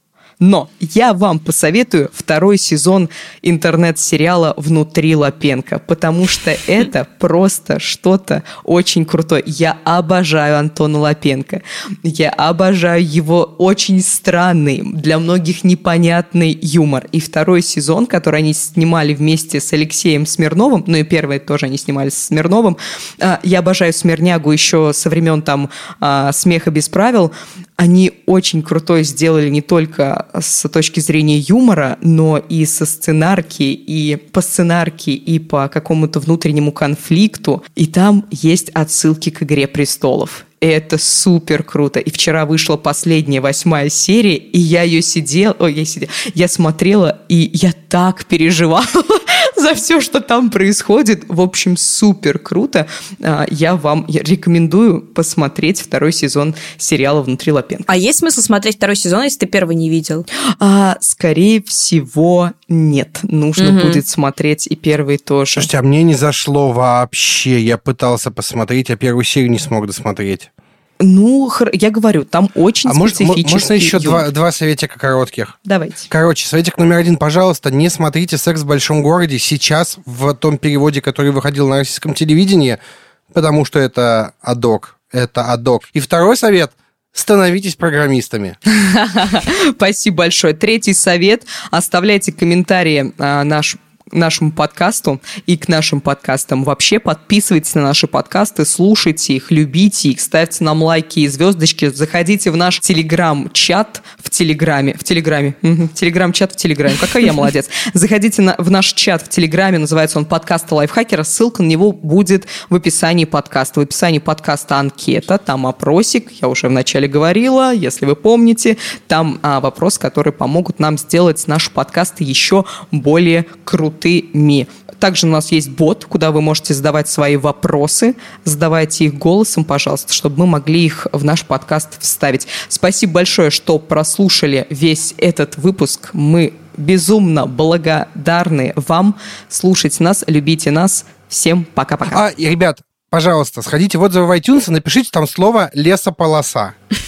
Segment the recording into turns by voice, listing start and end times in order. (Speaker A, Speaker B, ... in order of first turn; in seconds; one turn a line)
Speaker A: 0.4-57.9
Speaker B: 57.9-60.3
Speaker A: 60.6-65.7
Speaker B: 63.6-64.0
Speaker C: 65.5-70.5
Speaker A: 71.0-74.3
Speaker C: 72.8-75.6
Speaker A: 75.7-76.1
Speaker C: 76.1-82.8
Speaker C: 83.3-88.6
Speaker A: 88.7-142.2
Speaker C: 142.1-146.7